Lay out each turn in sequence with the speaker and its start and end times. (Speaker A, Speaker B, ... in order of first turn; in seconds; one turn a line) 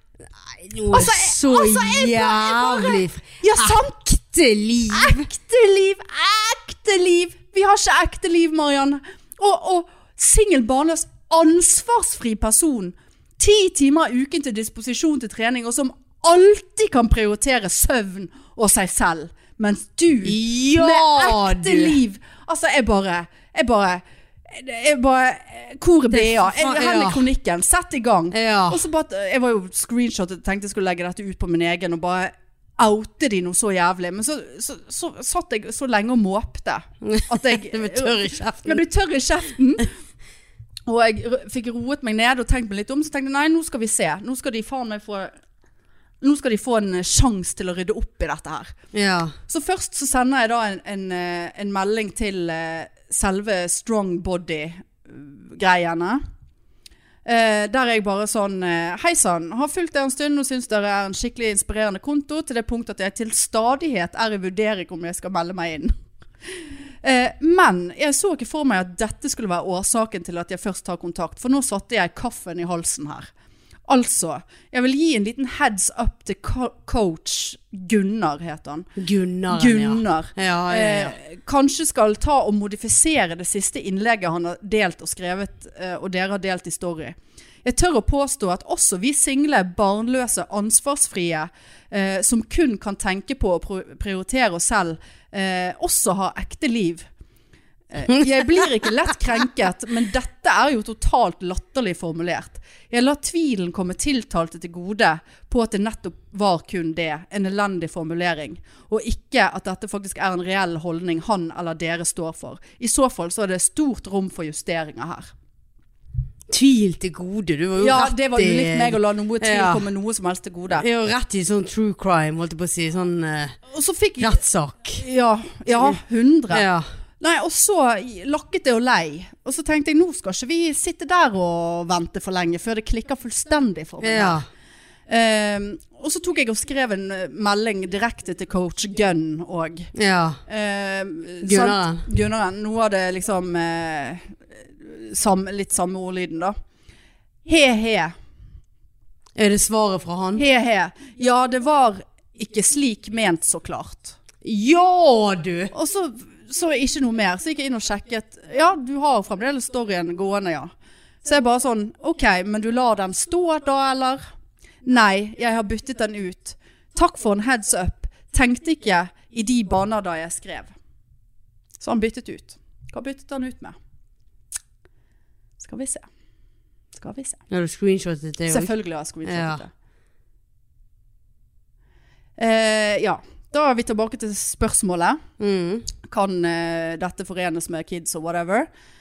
Speaker A: 0.4-5.2
Speaker B: 0.9-4.0
Speaker B: 4.9-39.9
Speaker A: 20.2-22.0
Speaker A: 26.1-27.3
Speaker A: 28.3-28.8
Speaker A: 37.0-38.8
Speaker B: 40.9-45.3
Speaker B: 46.2-48.8
Speaker A: 48.9-49.3
Speaker B: 49.5-56.2
Speaker B: 57.2-65.9
Speaker B: 67.0-73.3
Speaker B: 73.9-78.9
Speaker A: 79.0-81.2
Speaker B: 79.5-97.1
Speaker B: 97.9-115.3
Speaker A: 98.1-98.8
Speaker A: 116.5-119.9
Speaker B: 117.8-120.8
Speaker A: 120.7-123.6
Speaker B: 123.7-124.4
Speaker A: 124.2-125.0
Speaker B: 125.0-126.7
Speaker A: 126.5-126.9
Speaker B: 127.2-134.4
Speaker A: 134.0-134.5
Speaker B: 135.1-139.9
Speaker A: 139.9-140.4
Speaker B: 140.5-146.6
Speaker A: 141.4-142.1
Speaker B: 147.4-148.1
Speaker A: 149.3-150.4
Speaker B: 150.4-154.2
Speaker A: 154.4-155.7
Speaker B: 155.7-160.7
Speaker B: 161.2-164.2
Speaker B: 164.8-170.7
Speaker B: 171.8-173.8
Speaker B: 175.6-176.1
Speaker B: 176.9-177.4
Speaker A: 177.5-178.7
Speaker B: 178.5-179.7
Speaker A: 179.2-179.6
Speaker B: 182.4-185.2
Speaker A: 185.4-185.9
Speaker B: 186.0-188.7